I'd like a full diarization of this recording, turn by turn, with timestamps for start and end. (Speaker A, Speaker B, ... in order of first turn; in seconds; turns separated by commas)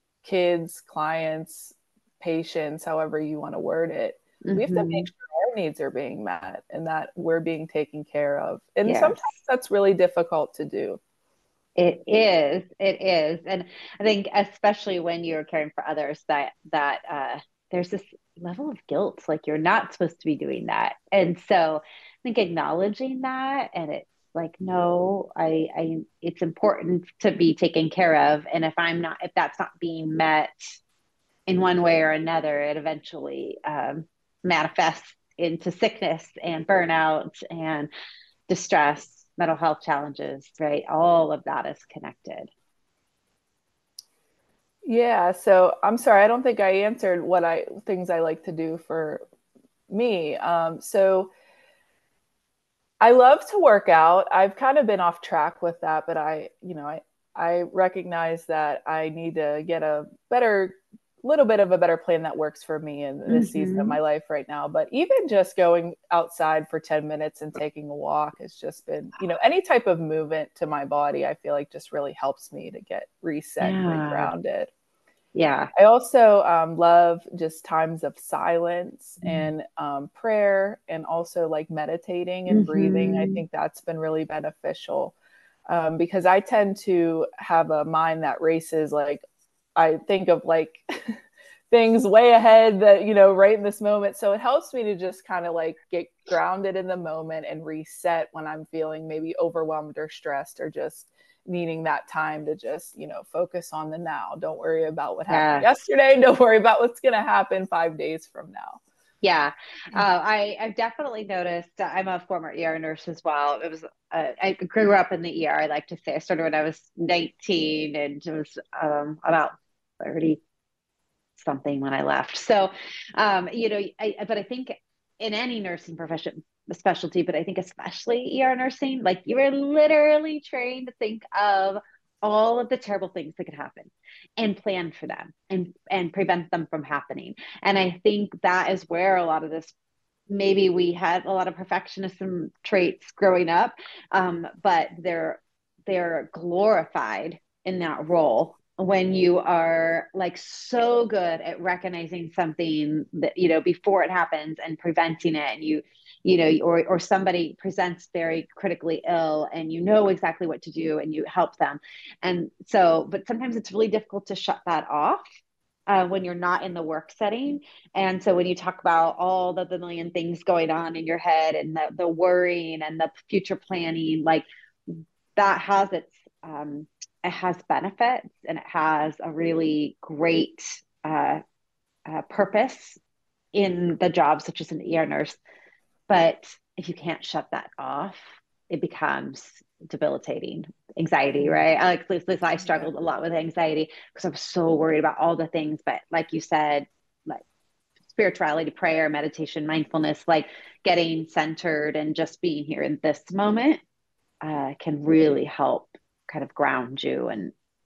Speaker A: 0.2-11.0, Speaker B: 4.4-5.1, Speaker B: 8.8-9.3, Speaker B: 11.8-30.5, Speaker B: 31.5-37.9, Speaker B: 38.5-42.5, Speaker A: 44.8-49.2, Speaker A: 49.9-51.3, Speaker A: 53.0-74.7, Speaker B: 63.3-64.0, Speaker B: 73.6-74.3, Speaker B: 75.3-75.7, Speaker A: 75.7-85.2, Speaker B: 79.2-79.5, Speaker B: 82.5-83.4, Speaker A: 85.7-89.2, Speaker A: 89.8-91.2, Speaker A: 91.7-108.8, Speaker B: 105.3-105.7, Speaker B: 109.2-120.4, Speaker B: 121.4-139.7, Speaker B: 140.3-165.2, Speaker B: 165.9-181.4, Speaker B: 182.1-183.0, Speaker B: 183.5-185.4, Speaker B: 186.1-197.4, Speaker B: 198.1-203.8, Speaker B: 204.4-207.5